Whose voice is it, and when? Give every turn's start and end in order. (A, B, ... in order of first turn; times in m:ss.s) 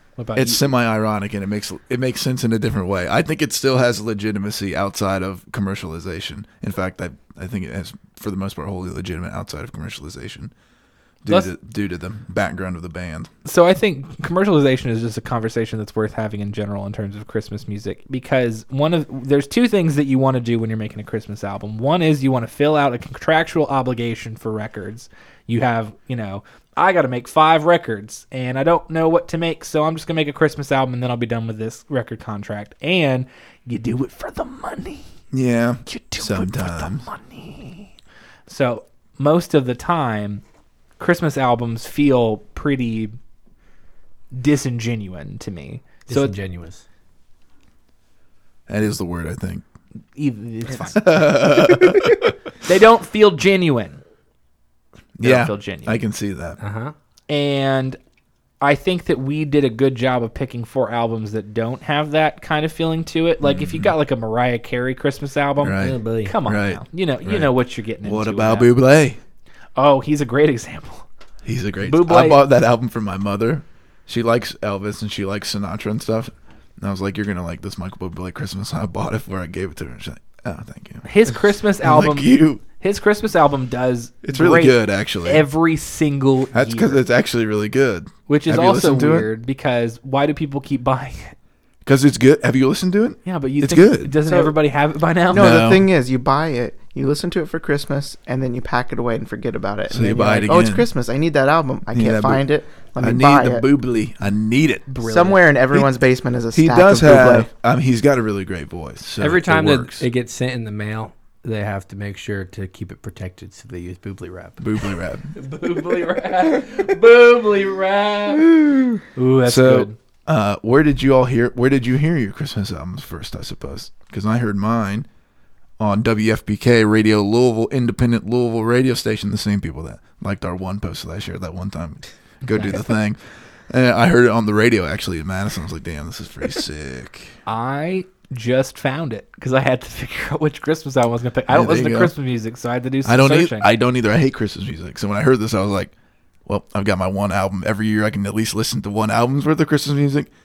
0:00.2-0:00.7 A
0:00.4-0:10.5 B
0:11.2-0:13.3 B
0:11.3-0:11.5 A
0:13.4-0:35.1 A
0:35.3-0:37.1 B
0:35.9-0:37.9 A
0:38.5-0:40.4 A
0:41.0-0:43.2 A
0:44.3-0:46.4 A
0:46.1-0:46.8 C
0:48.7-0:49.6 B
0:50.2-0:54.0 A
0:51.0-0:52.3 B
0:55.2-0:56.6 B
0:55.2-0:56.0 A
0:56.6-0:57.0 C
0:57.3-0:58.0 A
0:58.6-1:08.7 A
1:03.4-1:03.9 B
1:05.6-1:09.2 B
1:05.8-1:06.3 C
1:09.8-1:11.1 A
1:11.4-1:22.6 B
1:11.8-1:12.4 A
1:21.0-1:27.0 A
1:24.2-1:25.5 B
1:26.5-1:29.3 B
1:28.3-1:31.4 A
1:31.8-1:34.2 B
1:33.2-1:35.5 A
1:35.3-1:43.7 D
1:35.3-1:35.9 B
1:39.9-1:40.9 B
1:41.9-1:42.5 B
1:43.0-1:44.9 B
1:44.9-1:45.5 A
1:45.0-1:47.5 D
1:46.5-1:50.1 B
1:49.2-1:54.6 C
1:54.6-1:55.3 B
1:55.4-1:58.4 A
1:56.0-1:58.3 C
1:59.2-2:00.0 A
1:59.4-2:05.1 B
2:05.8-2:17.4 B
2:12.4-2:12.8 A
2:17.5-2:23.7 A
2:21.5-2:22.1 B
2:23.0-2:25.9 B
2:26.5-2:30.3 B